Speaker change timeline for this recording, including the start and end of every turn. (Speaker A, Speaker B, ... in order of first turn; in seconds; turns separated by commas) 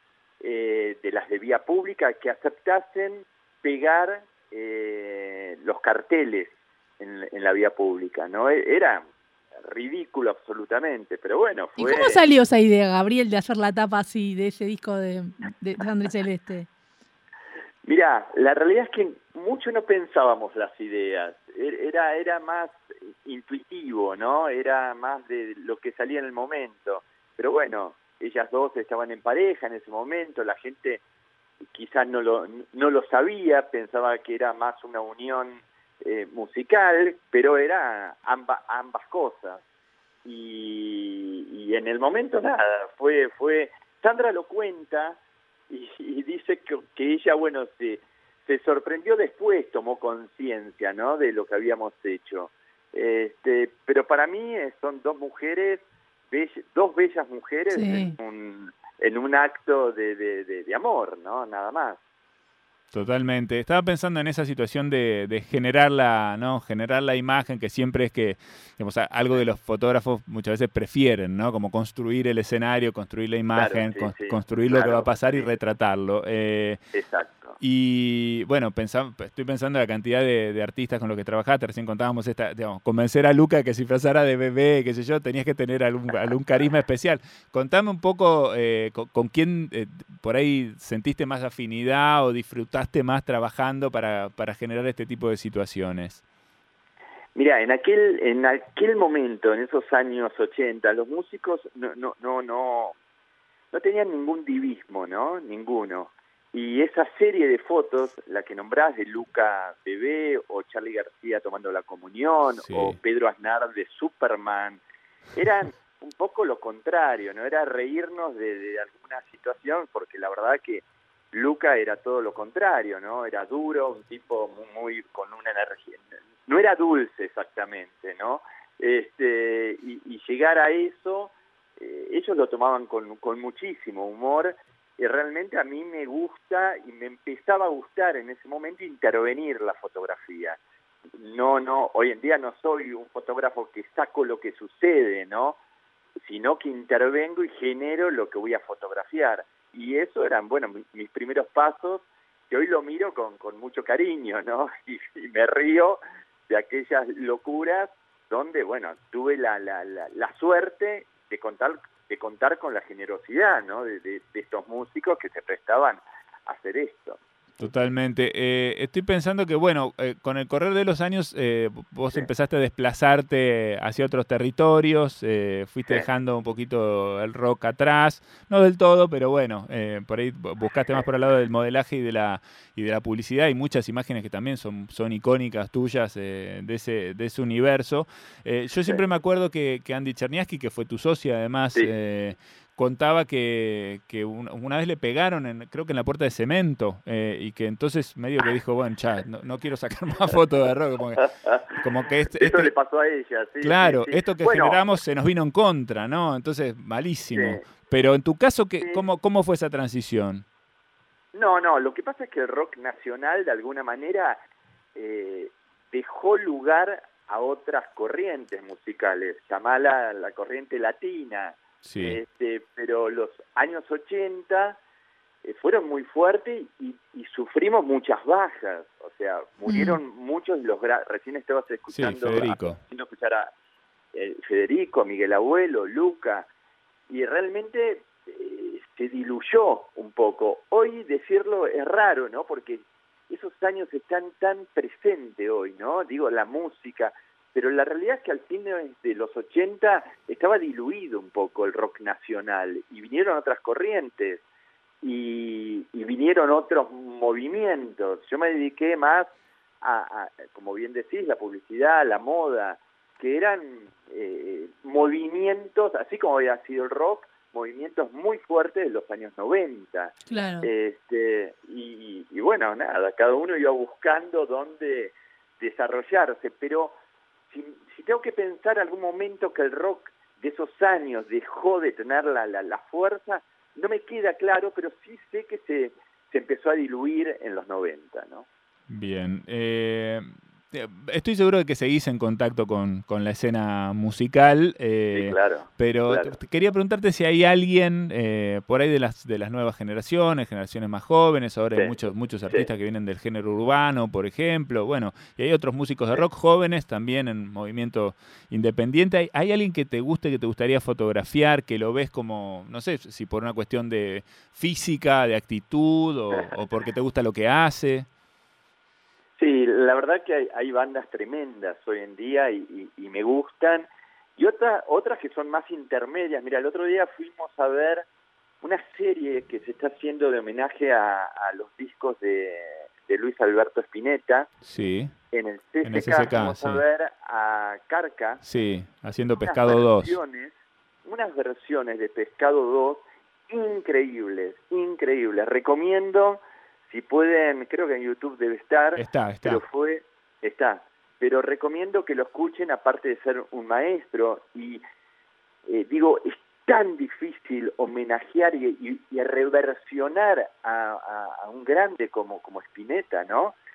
Speaker A: 0.4-9.0, Speaker A: 9.6-12.2, Speaker B: 11.8-16.7, Speaker A: 17.8-31.0, Speaker A: 31.7-39.6, Speaker A: 40.2-45.2, Speaker A: 45.7-62.0, Speaker B: 57.7-58.1, Speaker C: 62.9-76.8, Speaker A: 73.5-75.5, Speaker A: 76.9-77.6, Speaker C: 77.6-96.2, Speaker A: 97.3-102.9, Speaker A: 103.7-114.8, Speaker C: 112.6-113.0, Speaker A: 115.3-140.6, Speaker A: 141.2-145.6, Speaker A: 146.2-167.2, Speaker C: 167.6-202.7, Speaker A: 201.2-201.6, Speaker A: 202.3-204.8, Speaker C: 203.6-210.4, Speaker A: 207.3-207.7, Speaker A: 211.3-214.4, Speaker A: 214.9-224.8, Speaker C: 221.8-222.2, Speaker A: 225.4-233.5, Speaker B: 229.7-230.0, Speaker C: 231.9-232.8, Speaker A: 234.1-236.5, Speaker A: 237.1-254.4, Speaker A: 255.0-276.9, Speaker B: 270.3-270.7, Speaker A: 277.5-288.4, Speaker C: 288.9-318.1, Speaker A: 295.1-296.4, Speaker A: 319.4-328.1, Speaker A: 328.6-334.5, Speaker C: 334.6-335.1, Speaker A: 335.3-338.4, Speaker C: 335.8-336.8, Speaker C: 338.4-340.2, Speaker A: 339.4-340.5, Speaker A: 341.1-354.8, Speaker C: 348.9-349.6, Speaker A: 355.7-363.6